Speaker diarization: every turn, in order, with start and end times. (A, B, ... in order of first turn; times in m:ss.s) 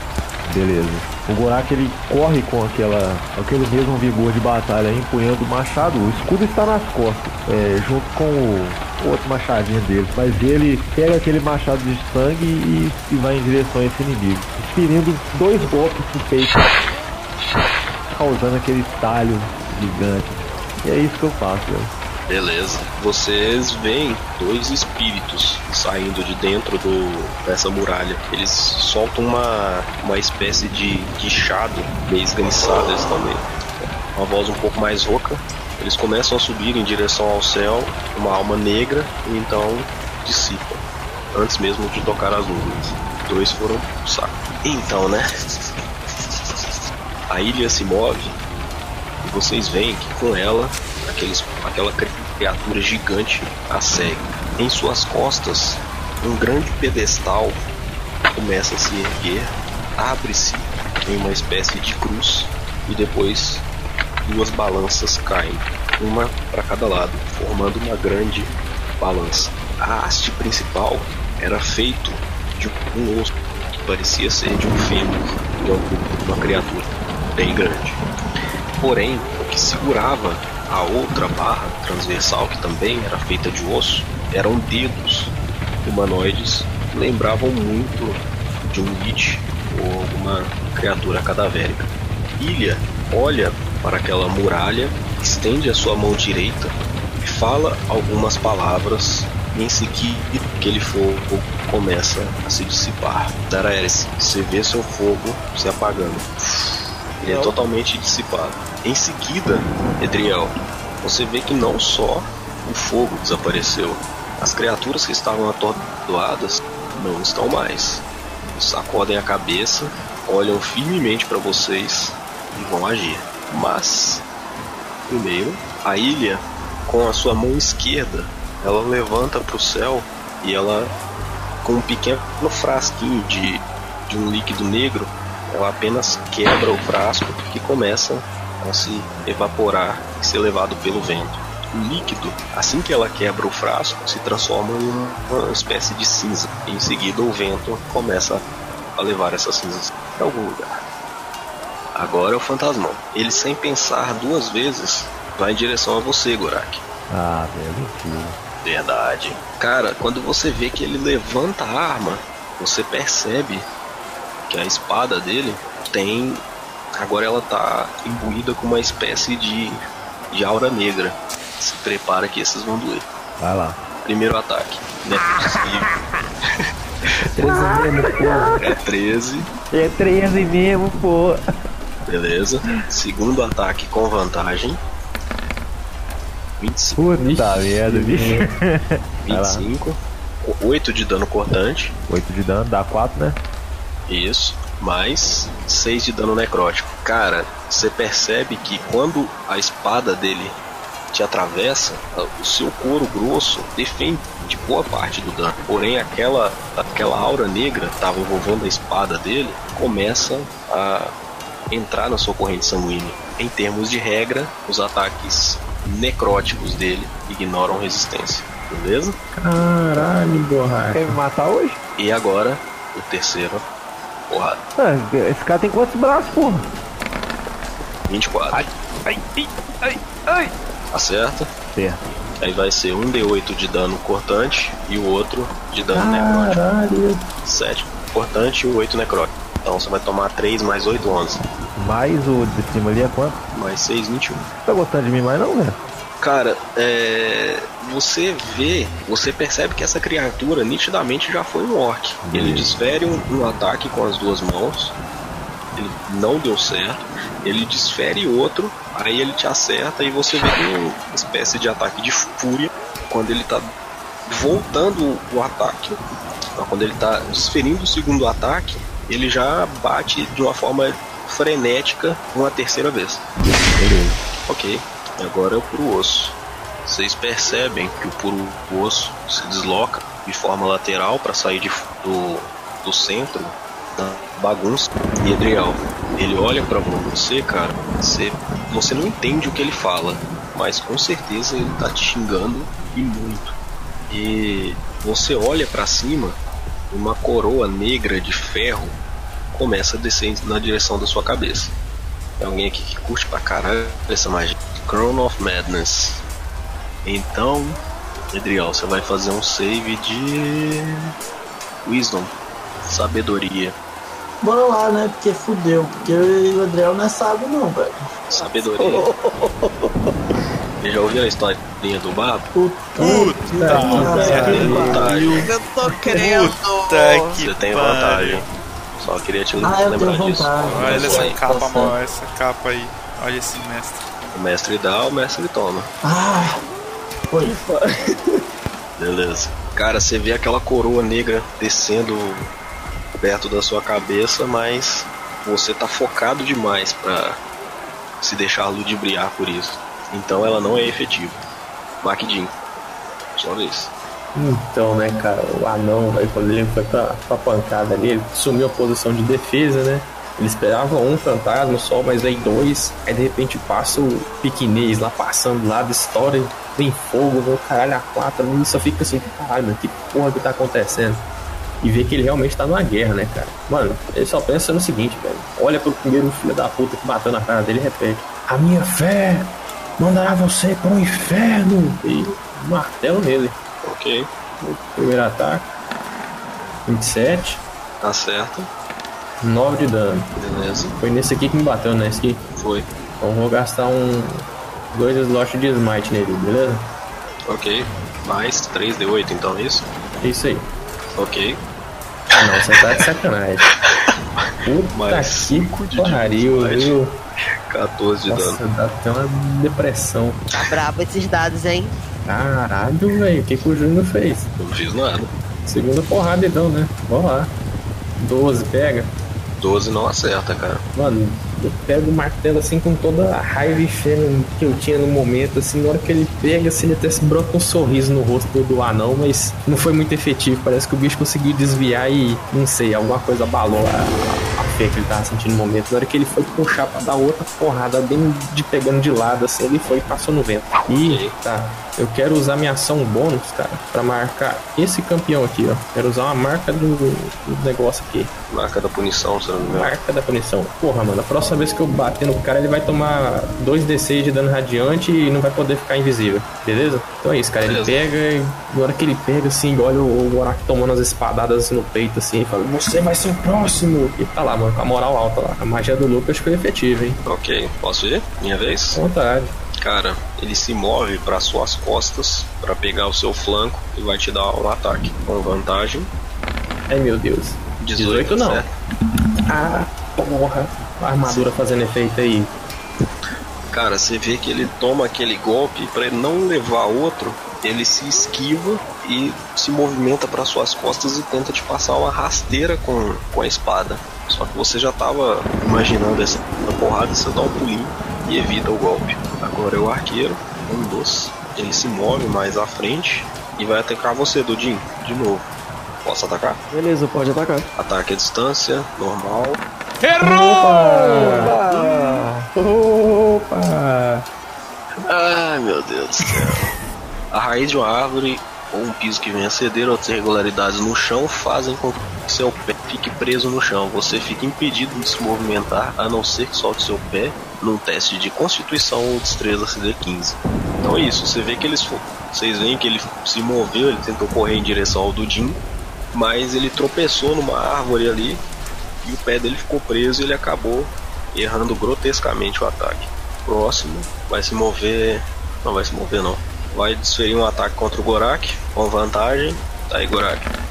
0:00.5-0:16.7 A
0:18.1-0:21.9 A
0:22.3-0:40.8 B
0:41.3-0:45.3 B
0:47.3-0:48.4 B
0:49.2-0:57.6 B
0:58.4-1:03.6 B
1:04.2-1:18.0 B
1:18.8-1:25.3 B
1:25.8-2:04.2 B
1:47.2-1:47.6 C
2:05.1-2:10.9 B
2:11.6-2:28.4 B
2:29.0-2:30.8 B
2:32.0-2:36.8 B
2:37.1-2:38.4 A
2:38.6-2:43.7 B
2:44.5-2:46.4 B
2:46.9-2:49.8 B
2:50.3-2:53.1 B
2:53.4-2:53.8 A
2:54.0-2:55.9 B
2:55.2-2:56.0 A
2:57.4-2:58.5 D
2:57.4-2:58.7 A
2:58.6-2:59.5 B
2:59.7-3:01.4 A
3:02.1-3:04.8 B
3:06.6-3:07.0 B
3:07.0-3:09.7 A
3:07.2-3:08.5 D
3:09.3-3:11.9 B
3:12.1-3:13.4 A
3:14.1-3:20.6 B
3:21.1-3:31.2 B
3:31.7-3:39.2 B
3:39.4-3:41.2 D
3:40.9-3:41.8 A
3:42.0-3:43.6 B
3:44.3-3:44.6 B
3:44.8-3:46.6 A
3:48.1-3:48.6 B
3:48.5-3:50.5 A
3:50.9-3:51.5 B
3:51.8-3:52.0 A
3:52.4-3:56.6 B
3:55.9-3:57.2 D
3:57.4-4:01.5 B
4:01.8-4:03.4 A
4:03.5-4:04.5 B
4:04.6-4:05.8 A
4:06.2-4:15.0 B
4:12.2-4:12.7 A
4:15.8-4:23.7 B
4:24.3-4:26.0 B
4:26.6-4:33.2 B
4:33.7-4:34.2 A
4:34.5-4:53.5 B
4:54.1-4:56.4 B
4:56.9-4:59.0 B
4:59.5-5:01.7 B
5:02.4-5:06.2 B
5:07.0-5:07.8 B
5:08.3-5:11.1 B
5:11.8-5:13.8 B
5:14.4-5:17.9 E
5:18.3-5:19.1 B
5:18.4-5:20.1 C
5:20.8-5:22.5 B
5:22.5-5:25.2 E
5:23.0-5:24.8 F
5:23.6-5:25.0 D
5:23.9-5:25.4 C
5:24.4-5:25.4 B
5:25.4-5:27.4 G
5:26.1-5:29.1 F
5:27.4-5:28.5 B
5:29.0-5:31.4 B
5:29.6-5:32.0 E
5:30.7-5:34.1 F
5:34.3-5:35.9 B
5:36.0-5:36.6 E
5:37.3-5:37.6 E
5:37.4-5:38.4 C
5:39.0-5:42.5 B
5:43.2-5:47.4 B
5:48.2-5:51.4 B
5:52.0-5:52.6 B
5:53.4-5:53.9 B
5:54.4-6:11.2 D
6:11.8-6:23.6 D
6:23.8-6:24.3 B
6:24.6-6:25.7 D
6:26.9-6:27.6 D
6:28.0-6:28.7 B
6:29.4-6:30.3 D
6:30.4-6:31.0 B
6:31.0-6:32.4 D
6:32.6-6:32.9 B
6:33.2-6:36.8 D
6:37.5-6:39.9 B
6:40.2-6:40.7 D
6:41.2-6:41.6 B
6:42.3-6:43.7 D
6:44.4-6:47.0 B
6:44.7-6:47.2 D
6:47.7-6:48.6 B
6:48.3-6:50.4 D
6:50.5-6:51.9 G
6:52.3-6:54.5 D
6:54.6-6:55.3 B
6:55.7-6:57.5 D
6:58.2-6:59.1 D
6:59.6-7:00.8 B
7:00.9-7:28.3 D
7:20.9-7:21.4 B
7:28.5-7:29.9 B
7:29.7-7:47.2 D
7:37.7-7:38.0 B
7:47.2-7:49.0 B
7:48.9-7:49.6 D
7:49.8-7:56.1 B
7:56.9-7:58.7 D
7:57.8-7:58.7 B
7:59.5-8:02.5 D
8:03.7-8:25.5 B
8:26.0-8:26.6 B
8:26.7-8:27.7 C
8:27.8-8:29.6 B
8:30.0-8:30.4 F
8:30.2-8:34.2 D
8:35.1-8:36.7 B
8:37.3-8:55.6 B
8:56.1-8:58.4 B
8:59.0-9:10.5 B